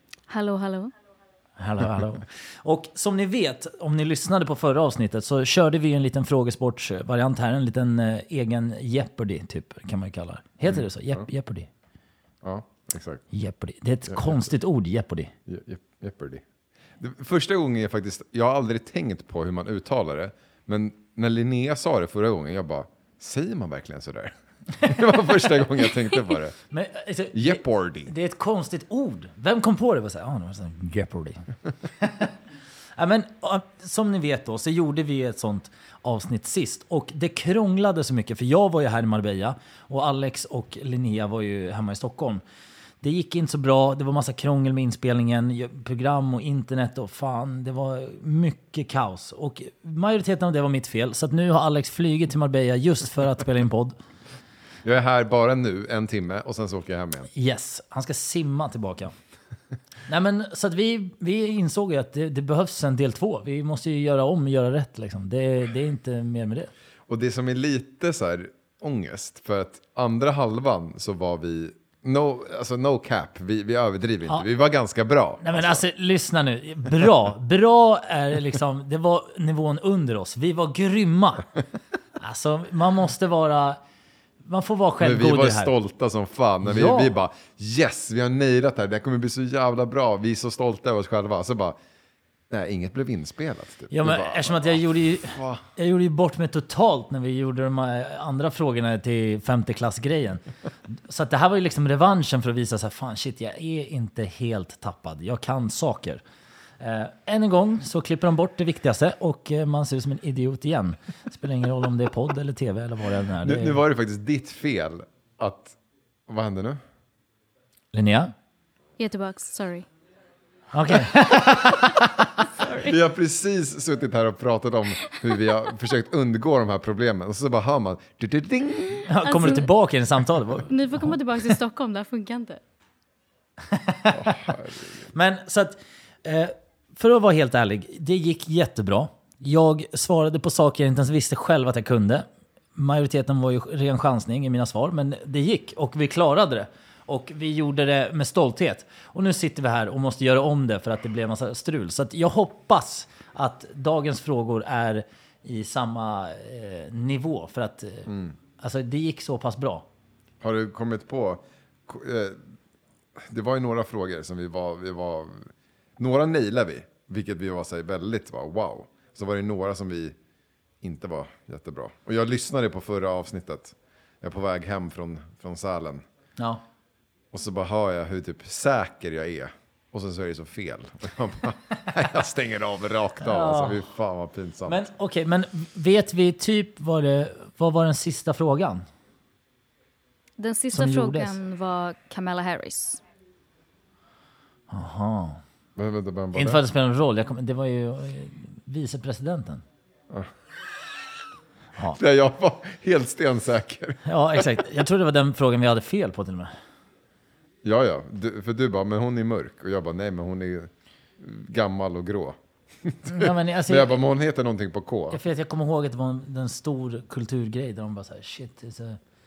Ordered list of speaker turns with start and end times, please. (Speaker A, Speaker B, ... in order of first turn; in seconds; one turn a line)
Speaker A: 0.3-0.9
Speaker B: 1.6-11.7
Speaker C: 10.7-11.2
Speaker C: 12.4-13.2
Speaker B: 13.3-15.3
Speaker C: 14.1-14.5
Speaker C: 15.4-16.4
Speaker C: 17.0-26.6
Speaker B: 26.7-32.3
Speaker C: 27.3-28.1
Speaker B: 33.0-42.4
Speaker B: 43.0-54.0
Speaker C: 54.8-57.3
Speaker B: 57.3-59.1
Speaker B: 60.1-66.7
Speaker C: 67.1-75.8
Speaker B: 75.4-81.5
Speaker B: 82.2-83.8
Speaker B: 84.4-85.7
Speaker C: 85.0-91.8
Speaker B: 86.6-87.1
Speaker C: 92.5-95.6
Speaker B: 93.9-106.2
Speaker B: 106.8-113.8
Speaker C: 113.4-115.8
Speaker C: 116.3-116.8
Speaker B: 117.9-118.3
Speaker A: 119.0-119.8
Speaker B: 120.7-122.4
Speaker A: 122.6-122.9
Speaker C: 122.8-129.1
Speaker B: 129.1-131.1
Speaker A: 129.2-129.7
Speaker A: 130.7-132.6
Speaker B: 133.7-134.6
Speaker C: 134.1-135.1
Speaker B: 135.1-159.8
Speaker C: 158.1-158.3
Speaker C: 160.4-162.5
Speaker C: 163.2-170.2
Speaker C: 170.8-176.1
Speaker B: 176.4-176.6
Speaker C: 177.3-184.9
Speaker B: 183.2-183.8
Speaker B: 184.7-188.8
Speaker A: 190.4-193.0
Speaker B: 190.7-191.3
Speaker B: 194.7-195.4
Speaker C: 195.8-196.6
Speaker B: 196.3-199.6
Speaker C: 201.9-204.4
Speaker B: 204.0-206.5
Speaker C: 207.6-215.2
Speaker B: 213.0-213.9
Speaker B: 215.1-219.0